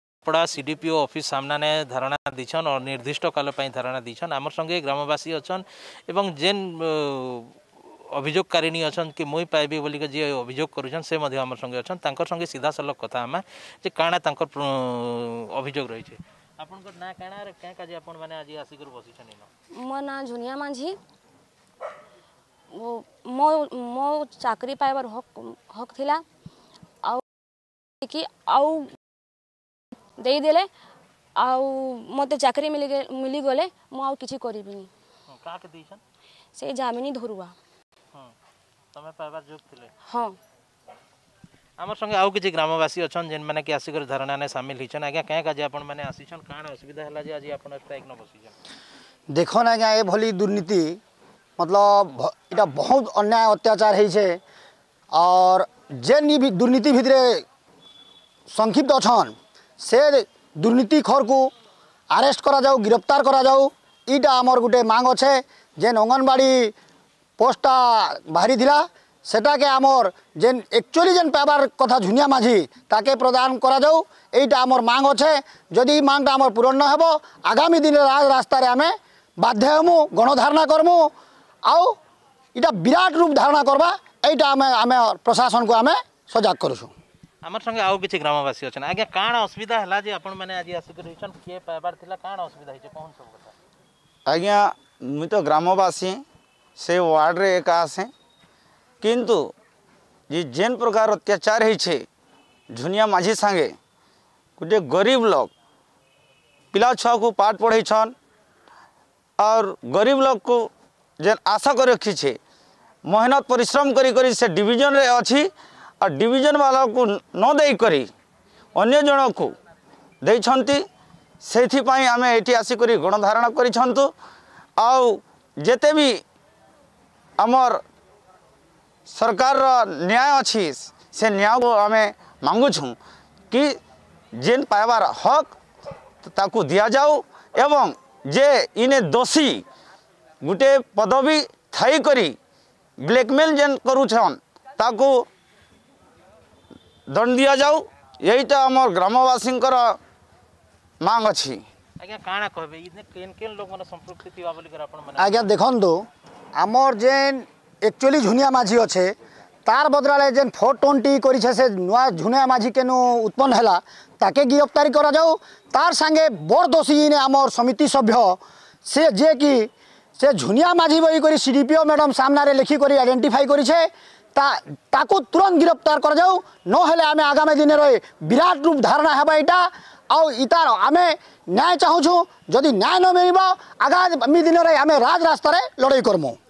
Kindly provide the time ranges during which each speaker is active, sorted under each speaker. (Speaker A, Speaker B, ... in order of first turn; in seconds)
Speaker A: 0.2-7.5, 8.1-19.5, 35.3-36.0, 38.9-39.9, 41.8-48.5, 87.4-93.5, 152.0-155.5
Speaker B: 19.7-20.9, 22.7-26.2, 28.0-28.9, 30.2-30.7, 31.4-34.9, 36.5-37.5, 40.1-40.4
Speaker C: 49.3-51.0, 51.6-54.4, 55.1-57.4, 58.5-61.5, 62.1-66.7, 67.4-81.1, 81.6-82.0, 82.5-86.9, 155.2-156.0, 156.6-159.1, 159.7-186.4
Speaker D: 94.3-96.2, 96.8-98.1, 99.0-99.5, 100.3-102.0, 102.7-103.7, 104.6-105.5, 106.7-108.1, 109.4-110.7, 111.2-112.4, 113.0-115.5, 116.0-118.1, 118.8-119.5, 120.2-120.8, 121.4-124.1, 124.8-126.2, 127.4-127.8, 129.1-132.9, 133.5-133.8, 134.4-135.5, 136.2-139.6, 140.4-142.3, 143.0-145.2, 147.1-149.9, 151.0-151.6